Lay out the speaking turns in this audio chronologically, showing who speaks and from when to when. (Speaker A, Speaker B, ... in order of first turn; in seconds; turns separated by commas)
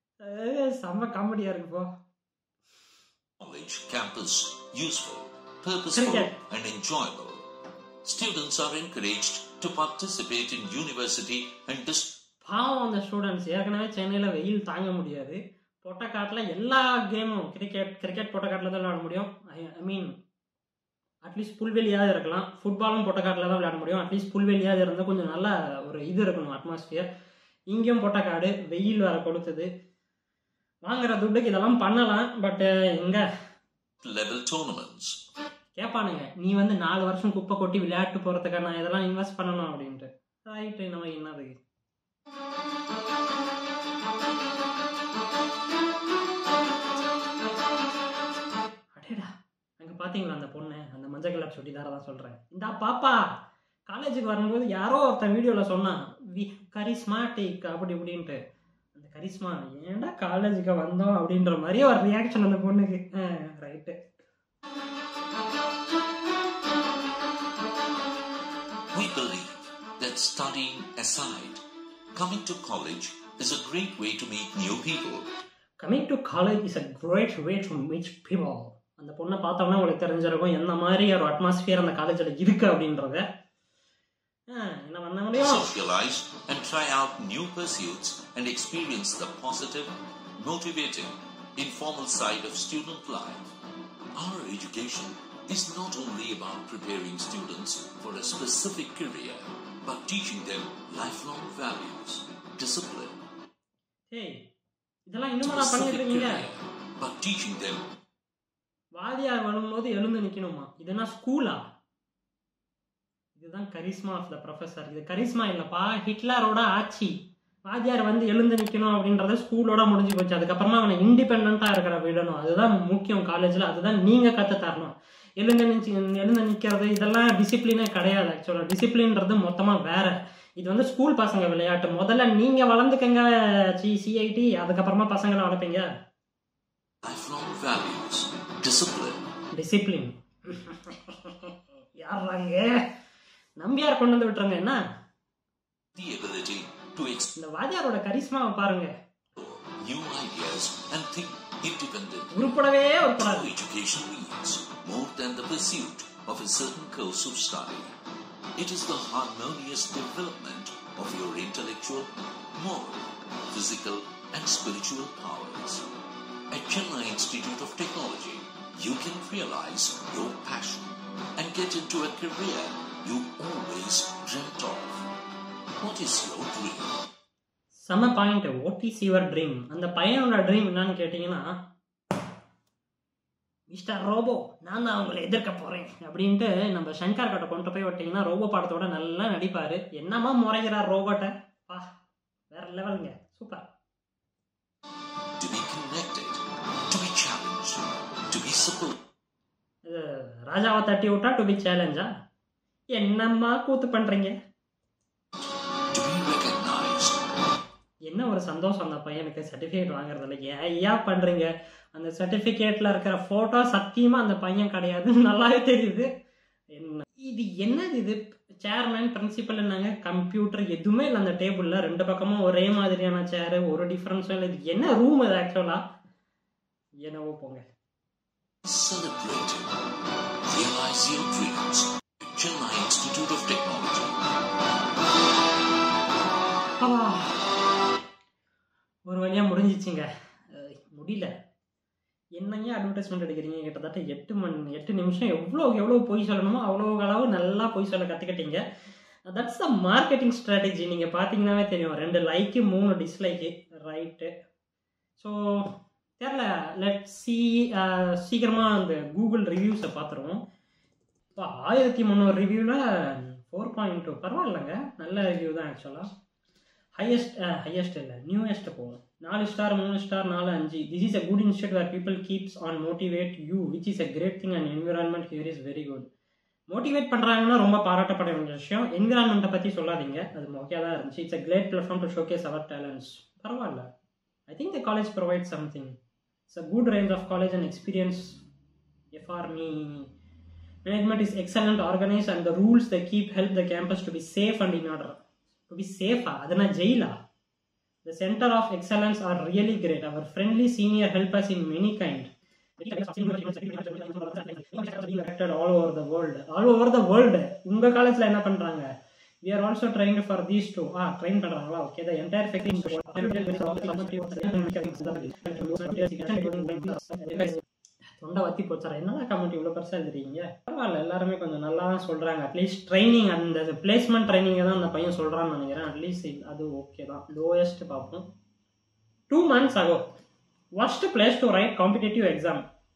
Speaker A: 0.2-1.9, Speaker B: 3.4-7.4, Speaker A: 5.9-6.3, Speaker B: 8.0-12.2, Speaker A: 12.4-20.1, Speaker A: 21.2-27.1, Speaker A: 27.7-29.7, Speaker A: 30.8-33.2, Speaker B: 34.0-35.2, Speaker A: 35.8-41.5, Speaker A: 48.9-53.1, Speaker A: 53.9-58.4, Speaker A: 58.9-64.0, Speaker B: 68.9-71.6, Speaker B: 72.1-75.3, Speaker A: 75.8-83.2, Speaker A: 84.5-85.7, Speaker B: 85.4-93.5, Speaker B: 94.1-103.2, Speaker A: 104.1-104.5, Speaker A: 105.1-106.4, Speaker B: 105.4-107.8, Speaker A: 109.0-111.6, Speaker A: 113.4-117.2, Speaker A: 117.7-135.9, Speaker B: 137.0-139.2, Speaker A: 139.5-142.8, Speaker A: 143.6-144.8, Speaker B: 145.9-147.3, Speaker A: 147.4-148.9, Speaker B: 149.3-152.5, Speaker A: 152.3-153.5, Speaker B: 153.2-157.9, Speaker B: 158.6-165.8, Speaker B: 166.5-175.0, Speaker B: 175.8-177.0, Speaker A: 177.8-181.5, Speaker A: 183.7-191.9, Speaker A: 192.5-193.6, Speaker B: 195.4-198.9, Speaker A: 199.8-202.1, Speaker A: 202.9-204.3, Speaker B: 205.9-207.2, Speaker A: 208.1-216.1, Speaker A: 216.7-225.8, Speaker A: 227.0-227.6, Speaker B: 228.6-229.7, Speaker B: 230.5-234.2, Speaker A: 236.8-237.4, Speaker A: 239.1-241.3, Speaker A: 242.4-248.6, Speaker A: 249.3-254.3, Speaker A: 255.2-260.4, Speaker A: 261.4-266.0, Speaker A: 267.0-276.1, Speaker A: 276.7-283.9, Speaker A: 284.5-286.0, Speaker A: 286.5-288.4, Speaker A: 289.1-290.1, Speaker A: 290.8-297.1, Speaker A: 298.0-308.9, Speaker A: 309.4-317.6, Speaker A: 318.2-328.2, Speaker A: 329.3-330.0, Speaker A: 330.8-332.6